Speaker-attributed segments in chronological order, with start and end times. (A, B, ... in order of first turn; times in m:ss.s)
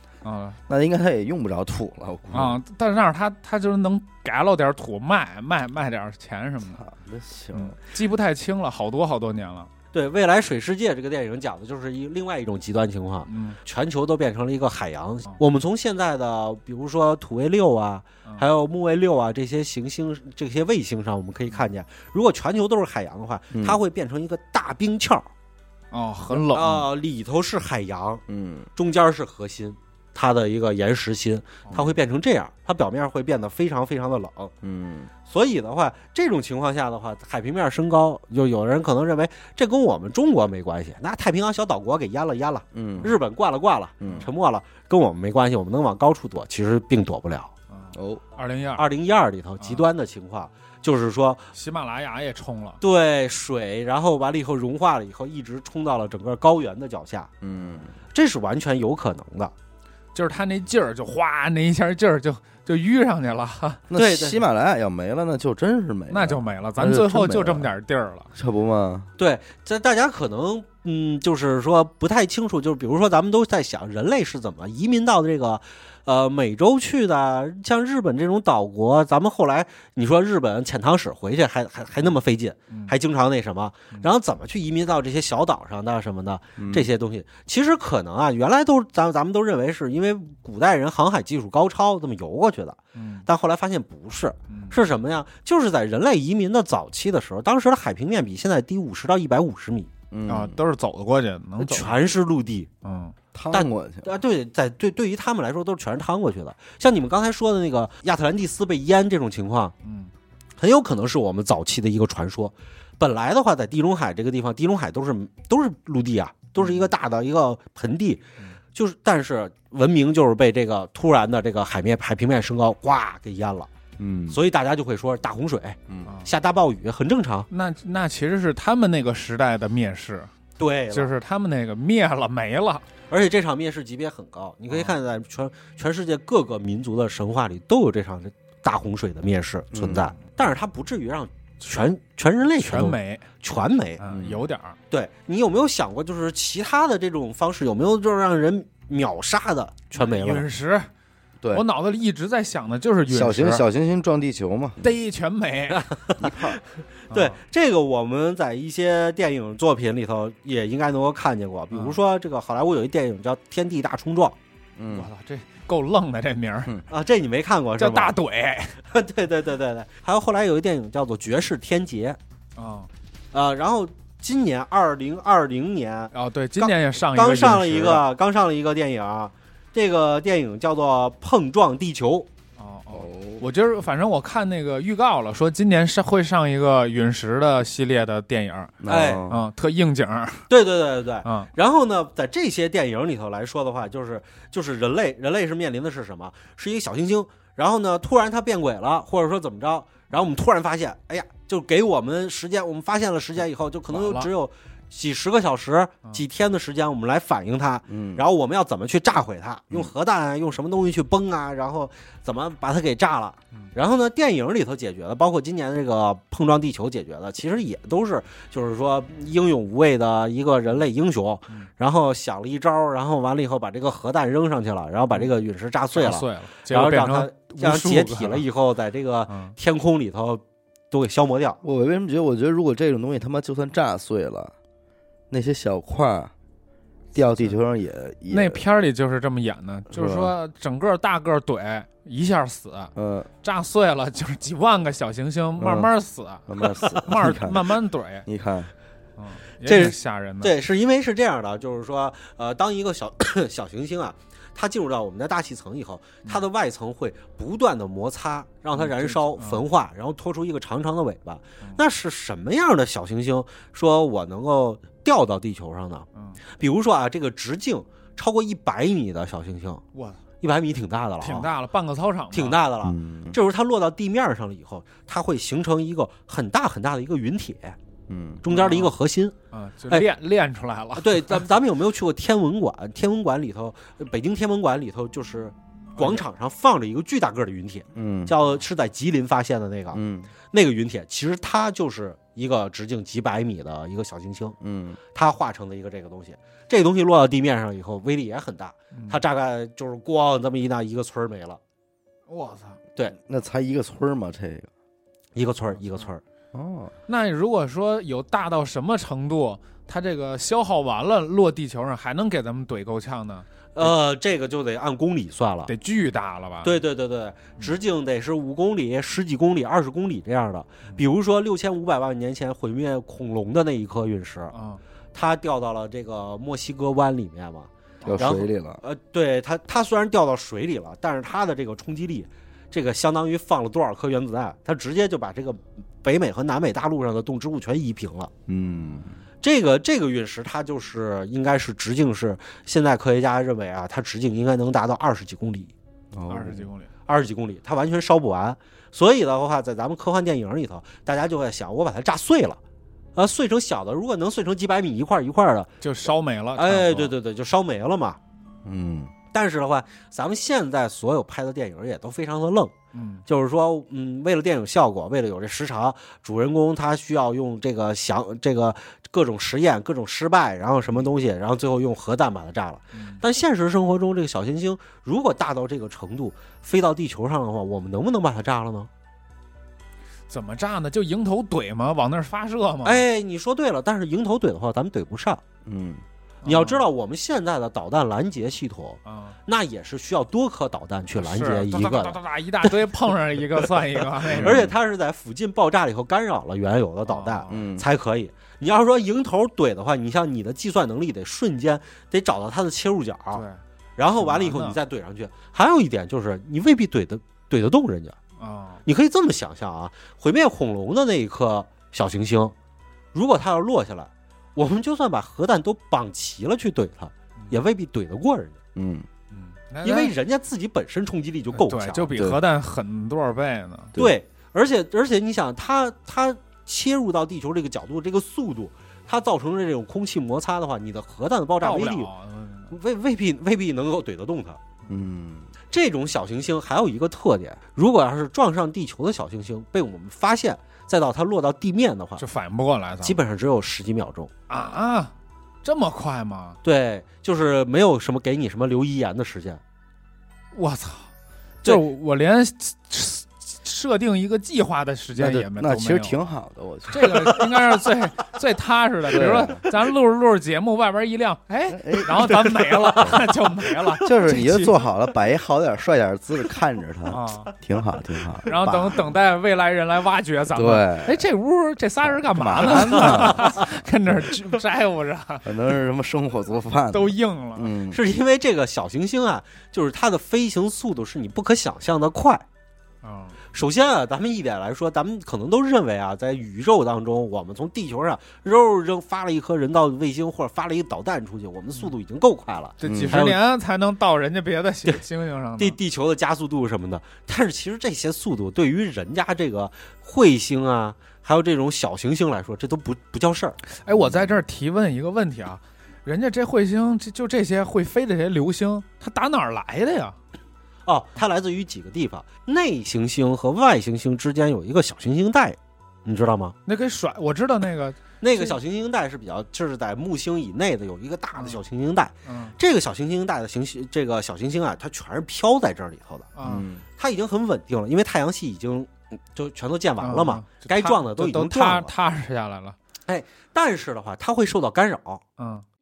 0:00.2-0:00.6 A
0:00.7-0:02.6 B
0:02.3-0:06.8 A
0:06.7-0:07.8 B
0:07.5-0:09.7 A
0:09.9-0:25.3 C
0:13.3-0:13.6 A
0:23.5-0:23.8 B
0:25.9-0:26.8 A
0:26.5-0:28.2 C
0:28.3-0:28.7 B
0:28.8-0:34.5 C
0:34.6-0:35.1 B
0:35.2-0:47.5 C
0:42.7-0:43.1 B
0:44.0-0:44.3 B
0:44.0-0:44.3 A
0:47.7-0:48.9 A
0:47.9-0:48.2 B
0:48.8-0:51.5 C
0:49.6-0:49.8 A
0:51.5-0:52.8 A
0:52.8-0:57.3 C
0:57.4-0:57.9 B
0:58.1-0:59.5 C
1:00.1-1:03.8 A
1:03.9-1:07.7 B
1:03.9-1:04.4 C
1:06.1-1:08.3 A
1:08.3-1:09.1 B
1:09.2-1:39.9 C
1:26.6-1:26.9 B
1:32.9-1:33.2 A
1:34.5-1:34.8 A
1:40.1-1:40.6 B
1:40.2-1:42.0 A
1:41.6-1:42.7 C
1:42.8-1:43.1 A
1:43.3-1:44.1 B
1:43.5-1:49.7 C
1:49.8-1:50.1 A
1:50.6-1:58.2 C
1:58.7-2:03.7 C
2:04.0-2:04.4 B
2:04.3-2:07.5 C
2:07.5-2:10.3 A
2:10.6-2:11.1 C
2:10.9-2:12.8 A
2:13.1-2:24.0 C
2:19.7-2:20.0 B
2:22.6-2:23.3 A
2:24.0-2:24.8 A
2:24.1-2:24.4 B
2:24.9-2:30.4 C
2:30.0-2:30.9 A
2:31.5-2:33.6 A
2:33.1-2:34.8 B
2:34.8-2:35.8 A
2:35.7-2:36.6 C
2:36.2-2:36.6 B
2:37.1-2:44.4 C
2:37.1-2:37.4 A
2:41.7-2:42.0 A
2:44.8-2:45.1 B
2:44.9-2:46.7 A
2:46.9-2:48.1 C
2:47.8-2:48.8 A
2:48.9-2:52.2 C
2:52.6-2:52.9 A
2:53.3-3:02.3 C
2:56.1-2:58.0 A
3:02.6-3:08.8 A
3:02.9-3:03.4 B
3:08.8-3:09.4 B
3:08.9-3:09.2 C
3:09.3-3:10.5 A
3:10.5-3:51.6 C
3:11.2-3:11.5 A
3:23.9-3:24.3 A
3:27.9-3:28.2 B
3:45.9-3:48.4 A
3:49.3-3:49.6 A
3:51.6-3:54.5 B
3:55.3-3:56.3 B
3:57.1-3:58.6 B
3:58.3-4:08.2 A
3:59.9-4:00.3 B
4:03.0-4:03.3 B
4:05.6-4:05.9 B
4:06.5-4:08.7 B
4:09.2-4:10.5 A
4:09.6-4:29.8 C
4:18.8-4:19.6 A
4:26.1-4:26.4 A
4:29.9-4:30.2 A
4:30.4-4:31.5 C
4:31.2-4:32.6 A
4:32.3-4:37.8 C
4:32.8-4:33.4 B
4:38.1-4:38.4 B
4:38.4-4:39.3 C
4:38.5-4:38.9 A
4:39.5-4:41.5 A
4:41.0-4:50.0 C
4:46.0-4:46.2 A
4:47.9-4:48.3 B
4:49.9-4:50.3 B
4:50.5-4:54.6 C
4:54.6-4:55.0 B
4:55.1-5:01.6 C
4:58.9-4:59.2 A
5:02.3-5:02.8 A
5:03.1-5:04.7 B
5:05.3-5:06.2 C
5:06.5-5:06.9 B
5:07.1-5:13.9 A
5:13.7-5:15.7 C
5:15.7-5:16.8 A
5:16.6-5:24.5 C
5:24.5-5:24.8 A
5:25.1-5:38.3 C
5:28.0-5:28.4 A
5:28.0-5:28.8 B
5:38.5-5:39.2 B
5:39.4-5:45.7 C
5:46.1-5:46.7 B
5:46.3-5:46.9 A
5:47.1-5:52.6 C
5:53.1-5:55.7 C
5:55.8-5:57.1 A
5:56.6-5:58.2 C
5:58.6-5:59.1 B
5:59.3-6:02.7 C
6:02.9-6:03.2 A
6:03.3-6:18.9 C
6:12.9-6:13.2 A
6:20.3-6:23.0 A
6:22.8-6:25.4 C
6:25.6-6:26.0 B
6:26.4-6:26.8 A
6:26.4-6:32.7 C
6:29.0-6:29.4 A
6:31.1-6:34.6 A
6:34.2-6:43.4 C
6:34.3-6:34.7 B
6:37.1-6:37.7 A
6:37.5-6:37.8 B
6:43.3-6:43.6 A
6:44.0-6:48.2 C
6:44.2-6:44.8 A
6:48.4-6:48.8 A
6:48.8-6:52.5 C
6:53.1-6:58.6 C
6:58.7-6:59.1 B
6:59.3-7:00.1 A
6:59.8-7:02.1 C
7:01.5-7:03.9 A
7:02.1-7:02.4 B
7:04.0-7:12.1 C
7:11.6-7:12.7 A
7:12.7-7:14.6 C
7:14.9-7:15.5 B
7:15.7-7:22.2 C
7:22.2-7:23.2 A
7:23.0-7:24.3 C
7:24.5-7:25.1 A
7:25.6-7:26.6 A
7:26.6-7:29.6 C
7:30.5-7:31.1 A
7:31.6-7:36.2 A
7:35.1-7:37.4 B
7:36.9-7:44.9 A
7:37.1-7:37.4 C
7:39.1-7:39.6 B
7:41.7-7:42.4 B
7:42.2-7:43.9 C
7:44.0-7:49.0 B
7:47.1-7:47.5 A
7:48.4-7:55.5 A
7:50.5-7:51.2 B
7:52.0-7:54.3 B
7:52.9-7:53.7 C
7:55.4-7:58.0 B
7:56.9-7:57.7 A
7:57.9-8:02.4 C
8:03.0-8:03.4 A
8:03.5-8:13.4 C
8:12.8-8:15.8 A
8:12.8-8:13.2 B
8:15.6-8:23.6 C
8:23.7-8:30.2 A
8:23.9-8:24.4 B
8:30.9-8:36.5 C
8:36.6-8:38.6 A
8:38.2-8:46.3 C
8:41.4-8:41.6 A
8:42.2-8:42.5 A
8:46.4-8:46.7 A
8:46.4-8:46.8 B
8:47.0-8:51.9 C
8:50.0-8:52.8 A
8:53.1-8:55.2 C
8:55.4-8:55.6 A